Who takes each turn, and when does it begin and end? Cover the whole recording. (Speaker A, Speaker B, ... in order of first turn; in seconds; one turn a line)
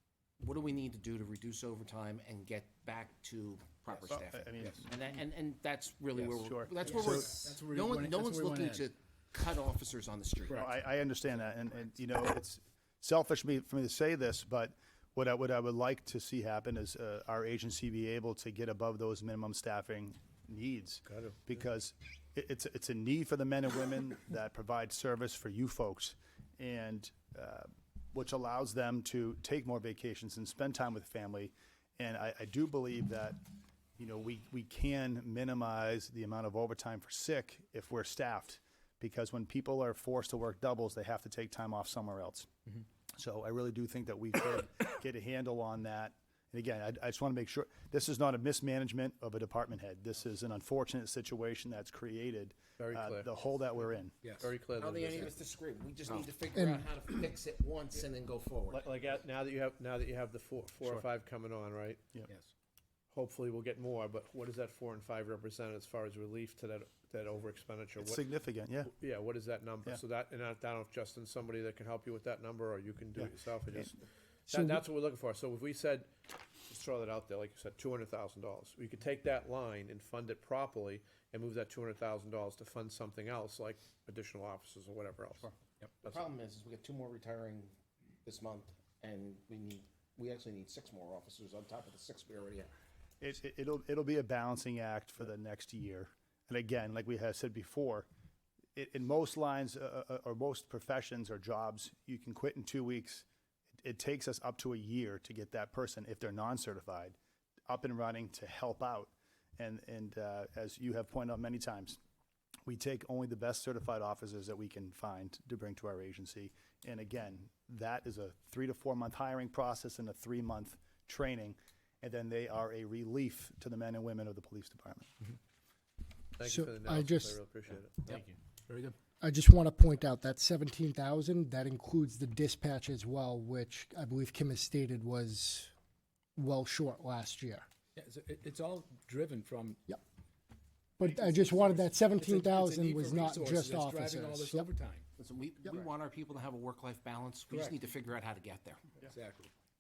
Speaker A: 0.4-10.6
Speaker B: 3.9-5.1
Speaker B: 6.2-7.0
Speaker C: 6.8-8.9
Speaker C: 10.5-10.8
Speaker B: 10.5-33.4
Speaker D: 21.1-21.4
Speaker B: 34.0-42.5
Speaker B: 43.1-54.2
Speaker D: 52.8-53.3
Speaker C: 54.2-54.5
Speaker D: 54.4-55.3
Speaker A: 54.8-58.8
Speaker D: 58.7-62.0
Speaker D: 63.1-68.2
Speaker B: 68.0-68.9
Speaker D: 68.9-76.1
Speaker B: 73.2-73.9
Speaker D: 76.7-85.5
Speaker A: 86.0-92.7
Speaker B: 93.2-98.1
Speaker B: 98.8-103.3
Speaker B: 103.8-107.2
Speaker B: 107.7-112.0
Speaker B: 112.7-125.1
Speaker D: 126.4-128.3
Speaker E: 126.4-127.4
Speaker C: 128.1-129.0
Speaker E: 129.2-135.7
Speaker E: 136.3-137.7
Speaker C: 137.9-139.8
Speaker E: 141.0-144.7
Speaker B: 141.1-141.8
Speaker C: 141.5-145.1
Speaker A: 145.2-149.0
Speaker C: 147.5-147.8
Speaker C: 149.0-149.5